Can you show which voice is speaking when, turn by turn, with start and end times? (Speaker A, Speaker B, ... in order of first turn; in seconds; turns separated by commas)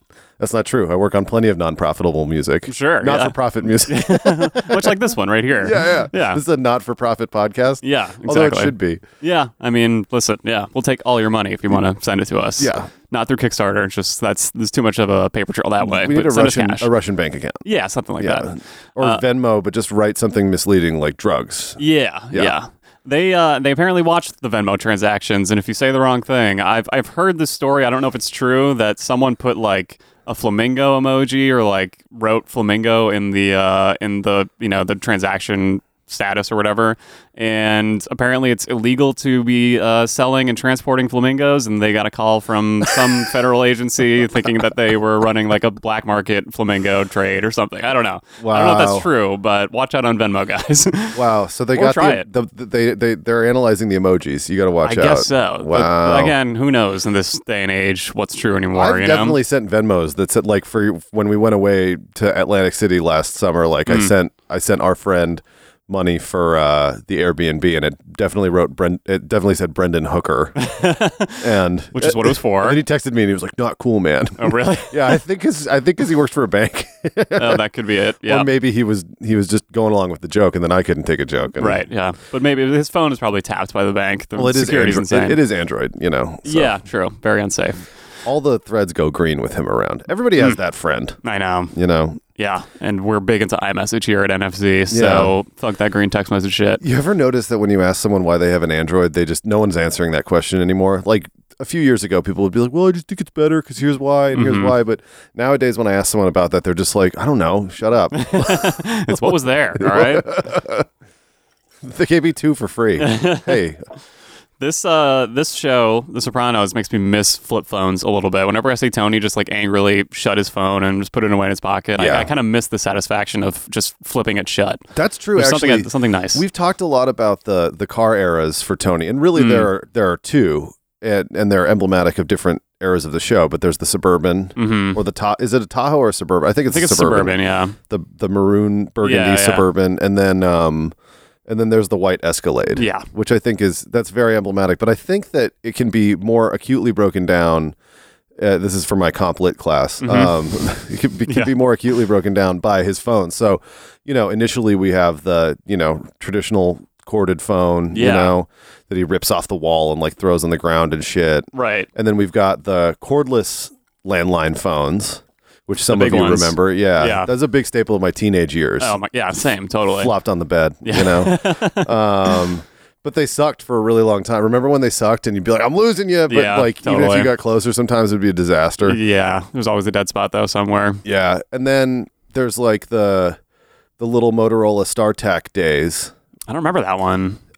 Speaker A: 0.4-5.0, Speaker B: 2.7-6.4, Speaker A: 5.6-9.0, Speaker B: 7.8-16.9, Speaker A: 12.6-12.9, Speaker A: 15.8-17.6, Speaker B: 17.6-19.2, Speaker A: 18.2-21.8, Speaker B: 21.8-51.2, Speaker A: 48.4-49.1, Speaker A: 51.1-56.4, Speaker B: 51.8-52.3, Speaker B: 54.8-59.4, Speaker A: 58.7-70.6, Speaker B: 63.9-64.1, Speaker B: 70.6-72.8, Speaker A: 71.4-77.6, Speaker B: 74.4-75.0, Speaker B: 77.3-78.5, Speaker A: 78.2-81.8, Speaker B: 81.6-85.4, Speaker A: 84.4-86.7, Speaker B: 86.5-87.9, Speaker A: 88.2-91.2, Speaker B: 91.2-91.8, Speaker A: 91.7-92.2, Speaker B: 92.4-96.8, Speaker A: 94.9-95.3, Speaker A: 96.8-110.9, Speaker B: 104.3-104.8, Speaker B: 108.2-110.4, Speaker A: 111.8-113.8, Speaker B: 113.0-113.6, Speaker B: 114.6-124.8, Speaker A: 122.0-122.3, Speaker A: 125.0-137.4, Speaker B: 125.3-126.4, Speaker B: 129.4-129.7, Speaker B: 134.6-135.0, Speaker B: 136.7-137.8, Speaker A: 137.9-140.9, Speaker B: 139.0-139.7, Speaker A: 141.5-147.8, Speaker B: 142.8-143.1, Speaker A: 148.4-169.0, Speaker B: 150.0-150.7, Speaker B: 151.2-151.5, Speaker B: 157.9-158.3, Speaker B: 161.5-161.9, Speaker B: 165.9-167.3, Speaker B: 168.8-170.1, Speaker A: 170.0-179.0, Speaker B: 170.8-172.5, Speaker B: 176.3-177.3, Speaker B: 178.8-181.0, Speaker A: 181.1-183.4, Speaker A: 184.0-186.1, Speaker B: 186.5-187.4